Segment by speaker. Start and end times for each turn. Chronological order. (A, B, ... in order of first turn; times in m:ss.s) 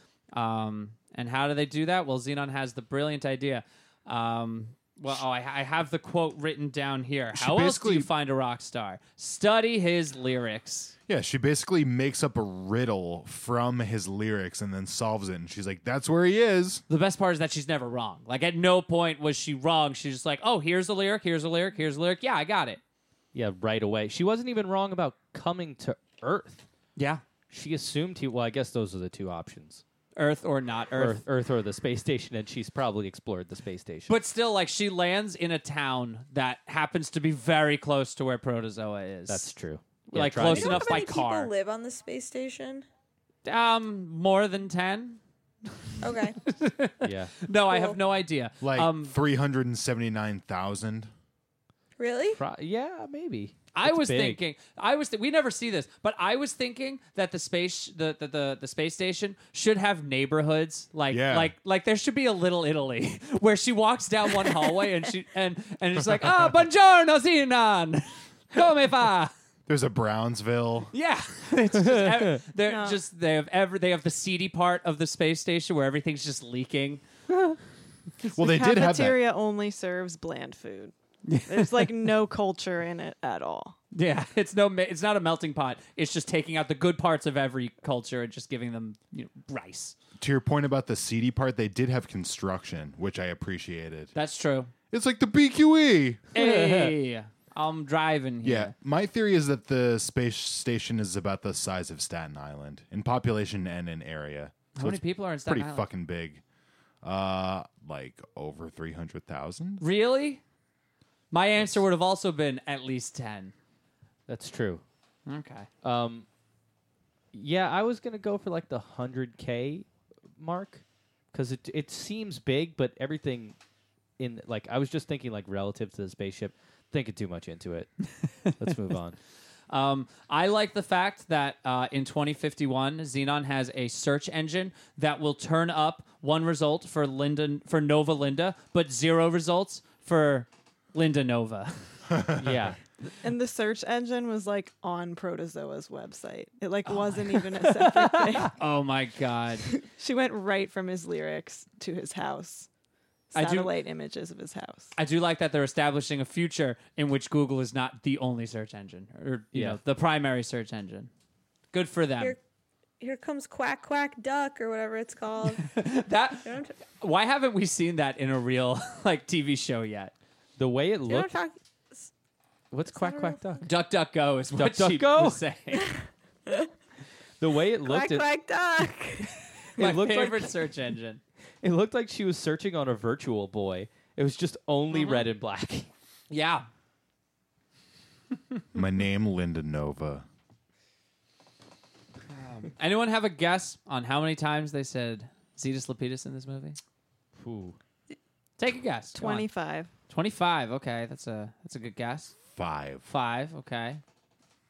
0:00.3-0:10.9 A
0:07.3-0:08.1 B
0:11.1-0:16.8 B
0:16.9-0:22.8 A
0:23.3-0:26.6 C
0:27.0-0:27.2 A
0:27.5-0:29.8 C
0:30.2-0:31.2 A
0:31.0-0:34.2 C
0:34.1-0:39.5 A
0:39.3-0:40.9 C
0:40.1-0:41.5 A
0:40.4-0:42.8 D
0:43.4-0:45.2 A
0:45.7-0:49.1 A
0:46.0-0:46.4 D
0:47.0-0:47.4 C
0:47.7-0:48.0 D
0:48.6-0:51.1 B
0:52.0-0:52.4 D
0:52.3-0:54.4 C
0:53.7-1:09.3 A
1:01.1-1:01.5 B
1:09.7-1:10.9 B
1:10.9-1:17.0 A
1:11.8-1:12.4 C
1:12.6-1:13.0 E
1:18.3-1:20.9 E
1:18.3-1:19.2 B
1:21.2-1:21.9 A
1:21.5-1:23.8 E
1:23.9-1:30.0 A
1:30.2-1:34.1 B
1:34.1-1:34.7 A
1:34.9-1:36.2 B
1:36.3-1:38.7 A
1:36.4-1:36.9 C
1:38.4-1:46.4 B
1:44.7-1:45.9 A
1:47.0-1:49.8 B
1:49.8-1:50.4 A
1:51.3-1:53.5 A
1:54.3-1:54.8 C
1:55.3-1:55.7 A
1:55.8-1:56.2 C
1:57.3-2:03.6 C
2:04.2-2:09.2 C
2:09.7-2:22.1 A
2:22.1-2:22.5 B
2:22.4-2:22.8 C
2:23.2-2:28.5 E
2:27.5-2:28.5 C
2:28.6-2:29.7 A
2:29.7-2:32.7 E
2:33.3-2:34.9 E
2:33.3-2:33.7 A
2:34.9-2:41.1 A
2:39.5-2:39.8 C
2:41.7-2:42.4 A
2:43.0-2:45.7 D
2:45.6-2:50.1 A
2:46.4-2:46.8 D
2:50.6-2:51.3 C
2:51.1-2:52.1 D
2:52.7-2:53.7 C
2:52.9-2:53.4 D
2:53.6-2:55.9 A
2:54.5-2:55.4 C
2:55.7-2:56.7 D
2:57.4-2:58.3 C
2:57.8-2:59.4 D
2:59.8-3:01.2 A
2:59.8-3:00.6 C
3:01.6-3:05.9 C
3:04.9-3:05.2 A
3:06.3-3:06.7 A
3:08.7-3:10.2 B
3:12.3-3:16.8 A
3:17.4-3:17.8 C
3:18.6-3:19.5 A
3:19.1-3:19.9 E
3:20.1-3:22.3 A
3:22.6-3:23.1 B
3:23.1-3:24.0 A